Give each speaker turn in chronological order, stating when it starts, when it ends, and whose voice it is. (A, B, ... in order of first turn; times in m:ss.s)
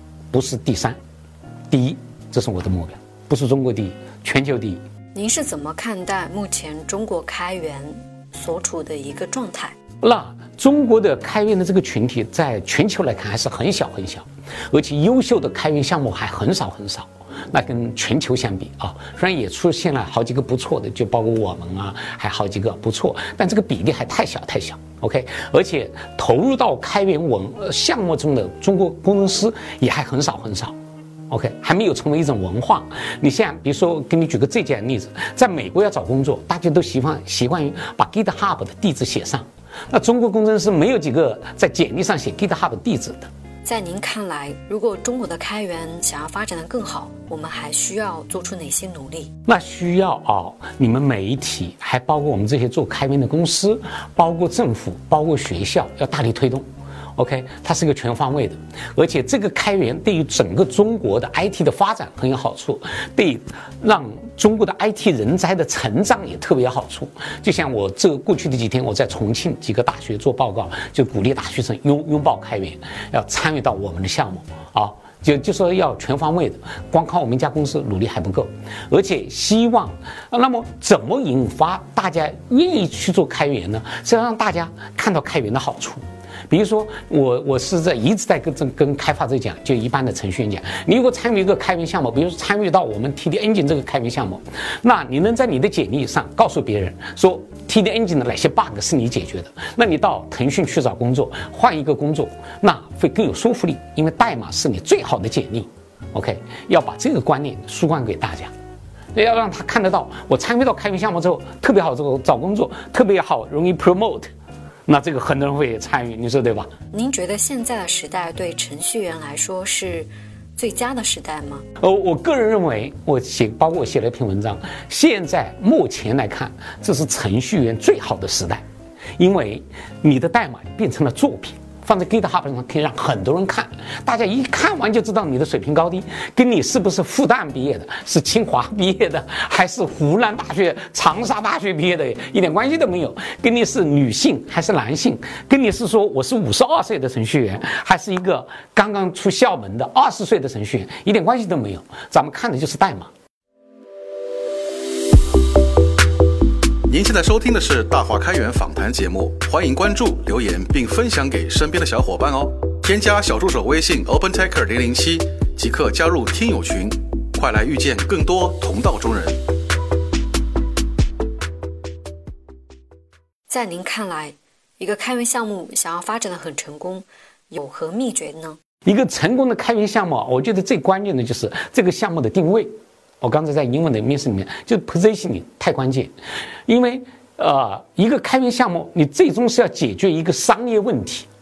0:00.3-0:01.0 A
0:01.7-0:04.8 A
0:05.1-0:09.8 B
0:10.0-0:30.8 A
0:31.3-0:43.3 A
0:43.6-0:49.3 B
0:49.5-1:48.5 A
1:49.2-1:54.3 A
1:54.9-1:56.7 A
1:56.9-2:01.6 B
2:01.8-2:08.6 A
2:09.2-2:33.1 A
2:36.9-2:49.4 C
2:53.5-2:58.6 B
2:58.9-3:06.1 A
3:06.7-3:11.3 A